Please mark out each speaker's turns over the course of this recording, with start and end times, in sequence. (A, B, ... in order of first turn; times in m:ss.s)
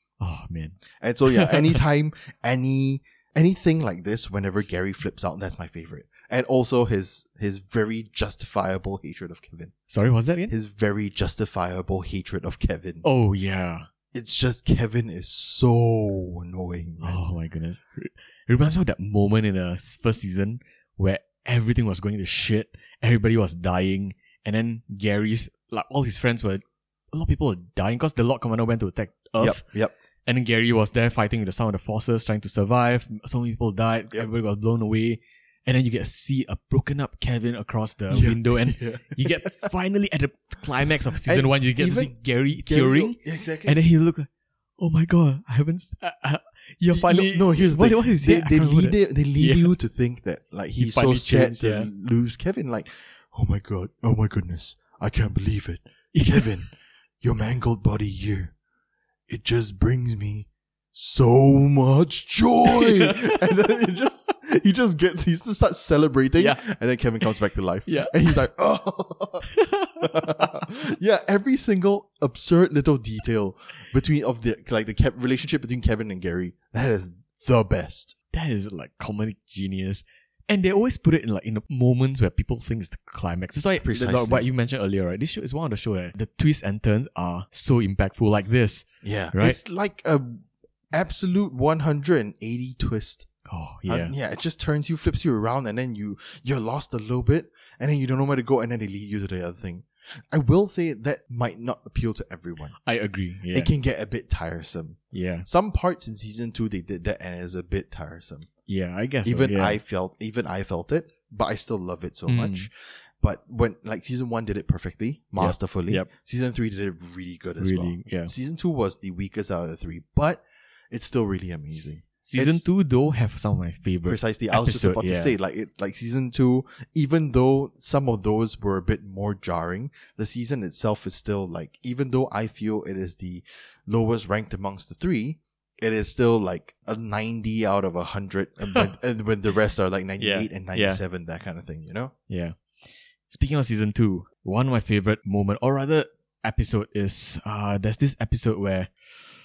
0:00.2-0:01.8 A
0:01.0-0:09.7 B
0:09.9-0:10.5 A
0:10.5-0:13.0 B
0:13.0-0:13.9 A
0:14.1-0:17.2 B
0:17.0-0:29.6 A
0:29.4-0:29.9 B
0:30.2-0:49.7 A
0:38.1-0:39.7 B
0:41.2-0:43.8 B
0:46.9-0:56.7 B
0:50.8-0:51.9 A
0:56.1-0:56.6 A
0:57.2-0:58.5 B
0:59.3-1:09.5 B
1:02.7-1:03.4 A
1:06.4-1:06.6 A
1:07.9-1:08.4 A
1:09.5-1:10.4 A
1:10.0-1:18.1 B
1:18.3-1:29.6 A
1:23.8-1:24.4 B
1:29.0-1:33.3 B
1:33.4-1:34.1 A
1:33.9-1:42.8 B
1:42.8-1:43.7 A
1:43.5-1:48.5 B
1:45.1-1:45.5 A
1:48.7-1:49.8 A
1:49.2-2:02.6 B
1:52.3-1:52.7 A
1:55.4-1:56.1 A
1:57.6-1:58.3 A
2:02.2-2:05.3 A
2:04.1-2:22.1 B
2:20.2-2:21.0 A
2:22.3-2:22.6 A
2:23.3-2:28.9 A